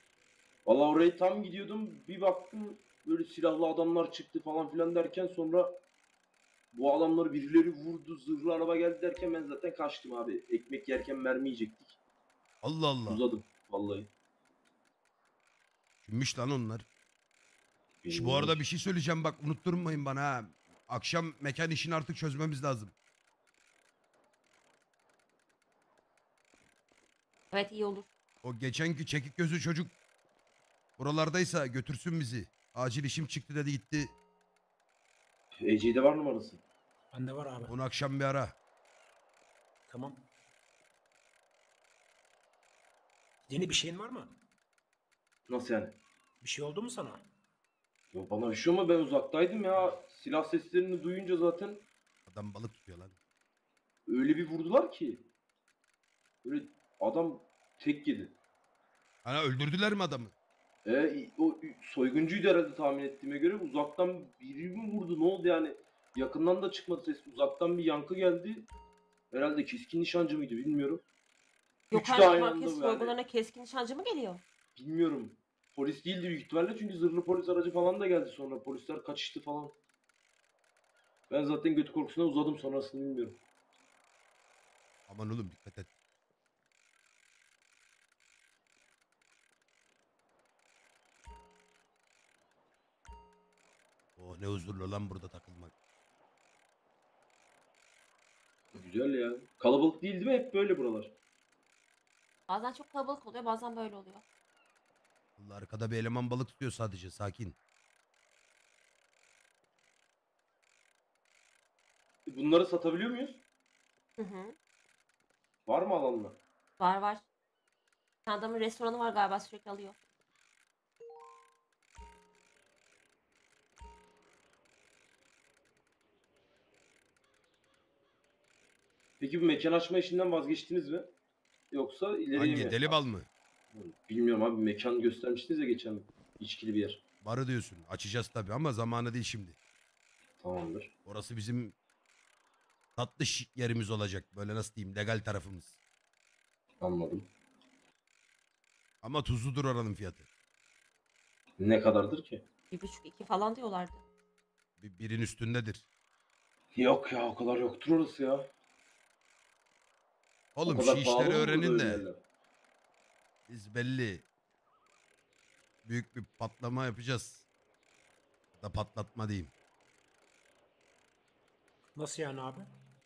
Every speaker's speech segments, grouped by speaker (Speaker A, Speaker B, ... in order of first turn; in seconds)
Speaker A: 0.7-5.8, 6.7-12.0, 13.1-14.1, 18.0-18.6, 35.6-36.6, 45.5-46.0, 48.1-51.9, 54.1-55.3, 56.4-58.4, 60.9-68.7, 69.3-71.0, 71.9-73.2, 74.8-79.8, 81.3-83.4, 98.7-101.2, 112.2-113.4, 115.7-116.4, 129.2-131.1, 131.7-133.0, 133.7-137.0, 140.4-140.9, 146.8-147.3, 151.6-152.4, 156.7-158.5, 160.7-162.2
Speaker B: 12.6-13.2, 16.0-16.9, 18.1-22.9, 28.4-29.9, 31.0-34.1, 37.7-38.5, 52.3-53.1, 59.2-60.3, 85.1-85.9, 94.2-95.7, 105.4-107.6, 132.3-133.3, 137.2-139.6, 141.1-141.7, 142.9-145.8, 149.0-150.2, 154.8-155.8, 160.6-162.1, 163.5-164.2, 165.8-167.4, 168.6-169.5
Speaker C: 27.5-28.1, 71.9-74.4, 102.5-104.2, 114.2-114.5, 116.8-117.2, 118.2-120.0, 152.7-154.0
Speaker D: 37.1-37.7, 39.9-40.2, 43.5-44.4, 46.4-47.2, 171.9-172.7